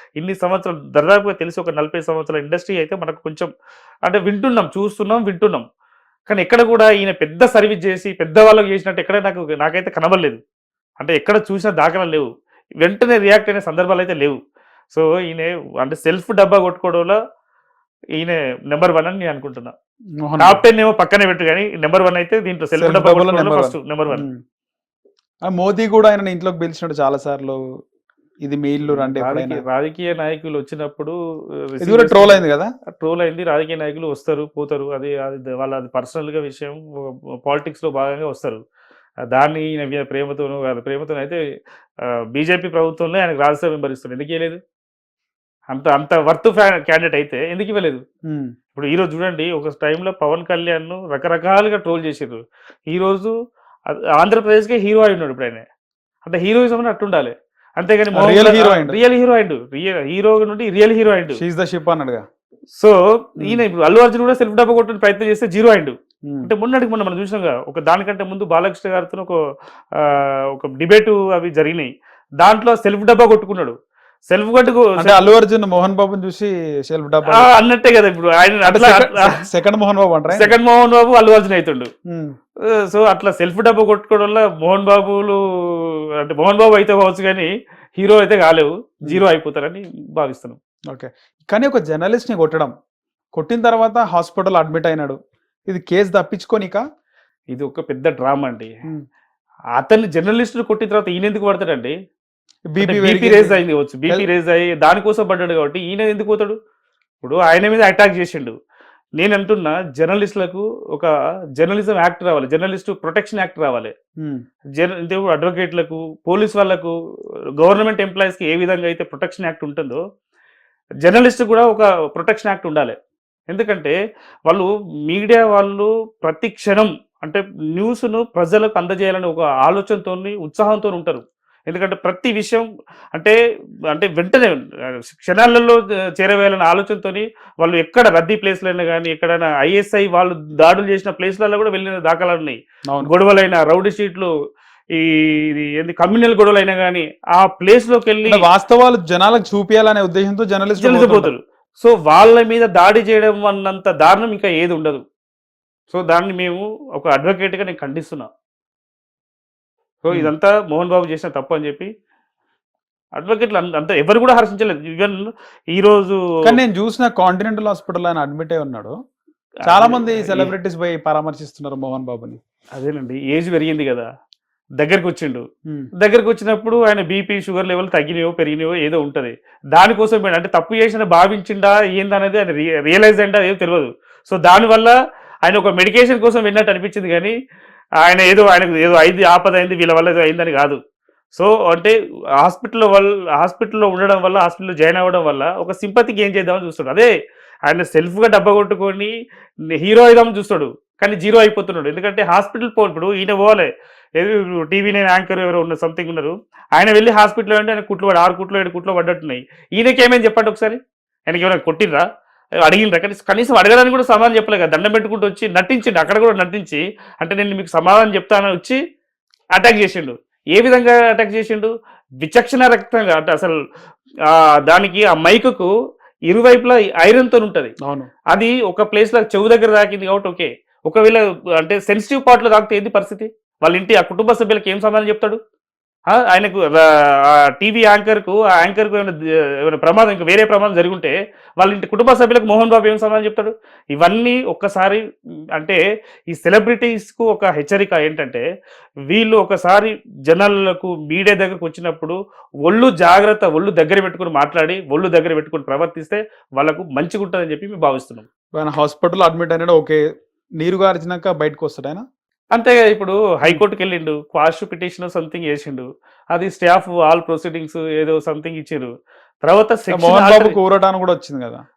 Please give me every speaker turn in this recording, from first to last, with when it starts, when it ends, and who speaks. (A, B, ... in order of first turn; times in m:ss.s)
0:00.2-0:03.5 A
0:04.0-0:05.6 A
0:06.3-0:10.4 A
0:11.0-0:12.3 A
0:12.8-0:14.4 A
0:14.9-0:17.2 A
0:18.2-0:19.7 A
0:20.2-0:20.6 B
0:20.4-0:24.2 A
0:22.8-0:24.4 B
0:25.5-0:27.6 B
0:28.4-0:29.6 B
0:28.9-0:32.4 A
0:31.8-0:32.7 B
0:33.0-0:38.6 A
0:39.3-0:41.4 A
0:42.3-0:44.6 A
0:45.7-0:48.0 A
0:48.8-0:53.3 A
0:53.9-0:55.6 A
0:56.2-1:01.4 A
0:58.1-0:59.0 B
1:01.4-1:02.2 B
1:02.7-1:09.4 A
1:09.9-1:13.8 A
1:14.3-1:15.3 A
1:15.0-1:17.5 B
1:17.3-1:19.3 A
1:18.6-1:20.5 B
1:20.3-1:21.9 A
1:22.1-1:22.3 B
1:22.6-1:30.6 A
1:30.9-1:32.7 B
1:33.4-1:36.8 B
1:37.5-1:38.7 A
1:39.8-1:41.9 A
1:42.7-1:44.3 B
1:42.8-1:46.6 A
1:47.2-1:48.5 A
1:49.2-1:53.9 A
1:54.8-1:57.0 A
1:57.6-2:00.0 A
2:01.0-2:03.0 A
2:03.5-2:04.0 A
2:04.5-2:13.4 A
2:13.9-2:24.3 A
2:24.9-2:28.4 A
2:28.2-2:31.3 B
2:30.8-2:35.0 A
2:35.9-2:38.3 A
2:40.0-2:41.9 A
2:43.2-2:46.2 A
2:46.4-2:48.9 B
2:49.7-2:52.4 B
2:49.7-2:50.5 A
2:52.7-2:54.1 A
2:54.8-2:55.4 A
2:56.0-3:07.3 A
3:08.0-3:10.8 A
3:11.3-3:17.1 A
3:17.6-3:19.1 A
3:19.7-3:32.0 A
3:32.6-3:38.8 A
3:39.5-3:41.7 A
3:42.2-3:43.6 A
3:44.3-3:45.7 A
3:46.3-3:47.7 A
3:47.8-3:48.1 B
3:48.3-3:55.4 A
3:56.1-4:05.0 A
4:06.3-4:08.4 A
4:09.1-4:18.3 A
4:18.5-4:20.0 B
4:20.6-4:22.0 B
4:22.5-4:28.9 A
4:29.4-4:30.5 A
4:29.9-4:31.6 B